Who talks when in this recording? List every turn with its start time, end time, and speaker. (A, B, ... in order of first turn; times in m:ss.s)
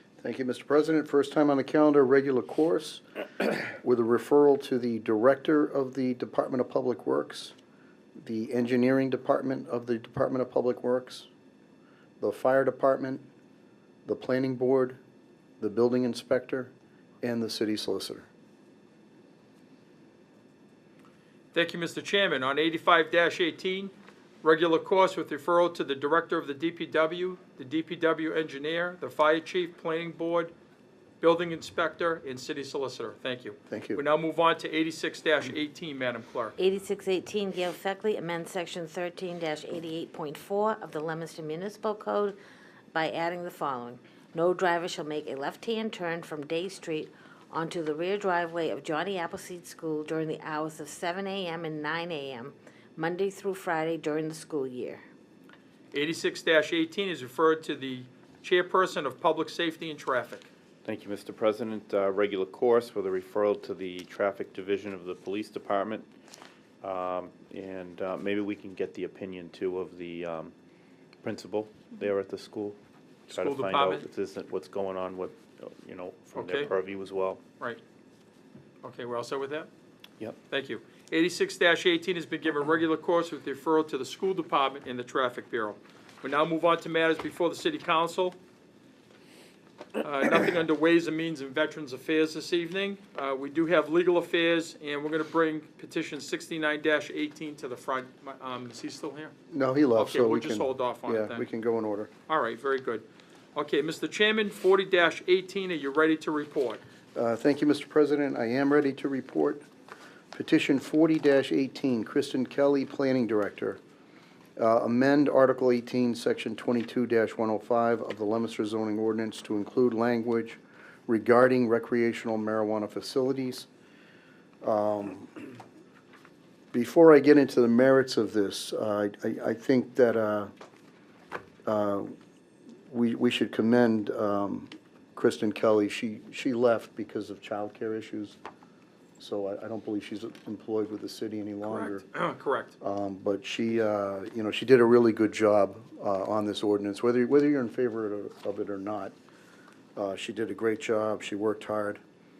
0:00.2-0:07.5 A
0:08.2-0:11.3 A
0:12.2-0:13.2 A
0:14.0-0:15.0 A
0:15.6-0:18.3 A
0:21.5-0:30.5 B
0:31.2-0:36.6 B
0:33.7-0:34.0 A
0:36.6-0:42.4 C
0:42.9-0:55.0 C
0:55.9-1:00.5 B
1:00.8-1:06.1 D
1:06.8-1:10.5 D
1:11.2-1:17.4 D
1:13.3-1:14.0 B
1:16.3-1:16.7 B
1:18.8-1:19.7 B
1:20.5-1:28.4 B
1:30.0-1:39.3 B
1:39.5-1:42.1 A
1:40.0-1:41.4 B
1:42.3-1:46.8 B
1:47.1-1:49.6 A
1:50.3-1:53.8 A
1:54.6-2:03.7 A
2:04.6-2:05.4 A
2:06.7-2:10.5 A
2:11.6-2:12.1 A
2:12.9-2:18.4 A
2:19.2-2:22.0 A
2:21.6-2:22.7 B
2:22.8-2:29.1 A
2:30.0-2:32.0 A